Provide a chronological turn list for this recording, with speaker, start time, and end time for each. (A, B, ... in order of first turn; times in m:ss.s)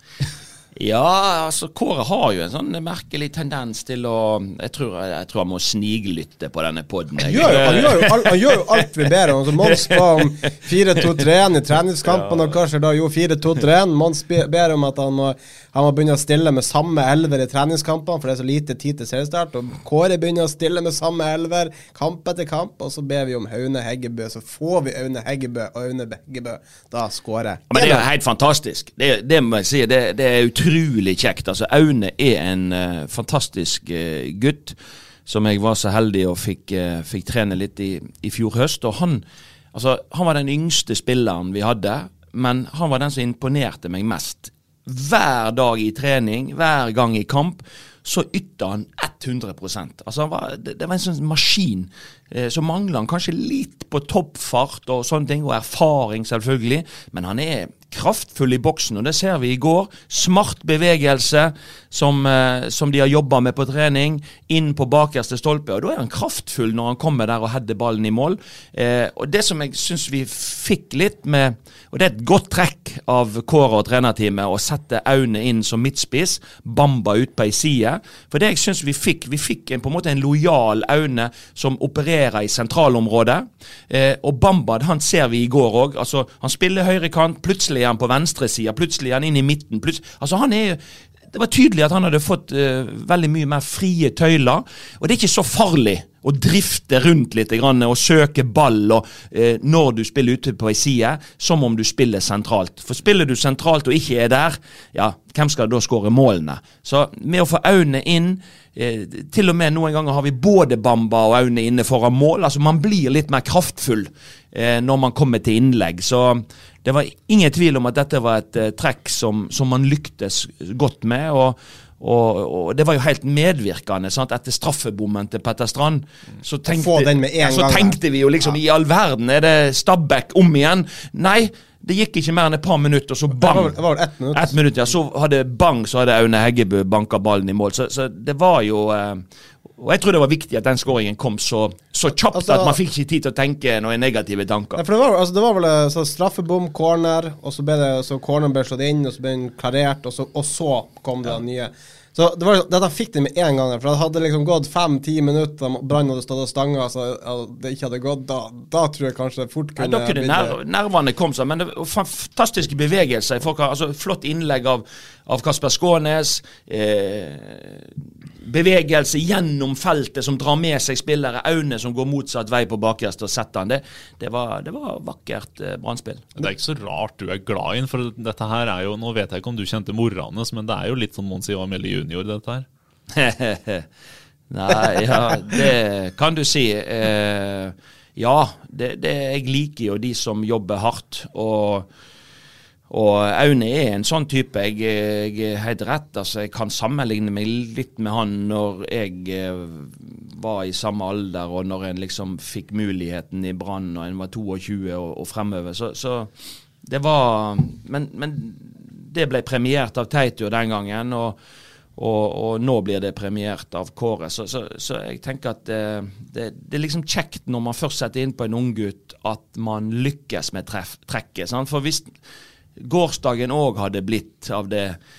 0:00.8-0:08.6 A
0:07.2-0:28.0 B
0:09.7-0:10.4 A
0:12.0-0:12.6 A
0:27.7-1:30.8 A
1:31.3-2:13.8 A
2:06.7-2:08.0 B
2:13.3-2:14.6 B
2:14.3-2:19.2 A
2:19.8-2:24.8 A
2:22.3-2:22.8 B
2:24.8-2:40.6 B
2:39.8-2:56.3 A
2:56.4-3:02.7 C
3:03.1-3:03.9 A
3:04.5-3:11.9 A
3:12.9-3:31.4 A
3:32.0-3:42.1 A
3:42.8-3:45.0 A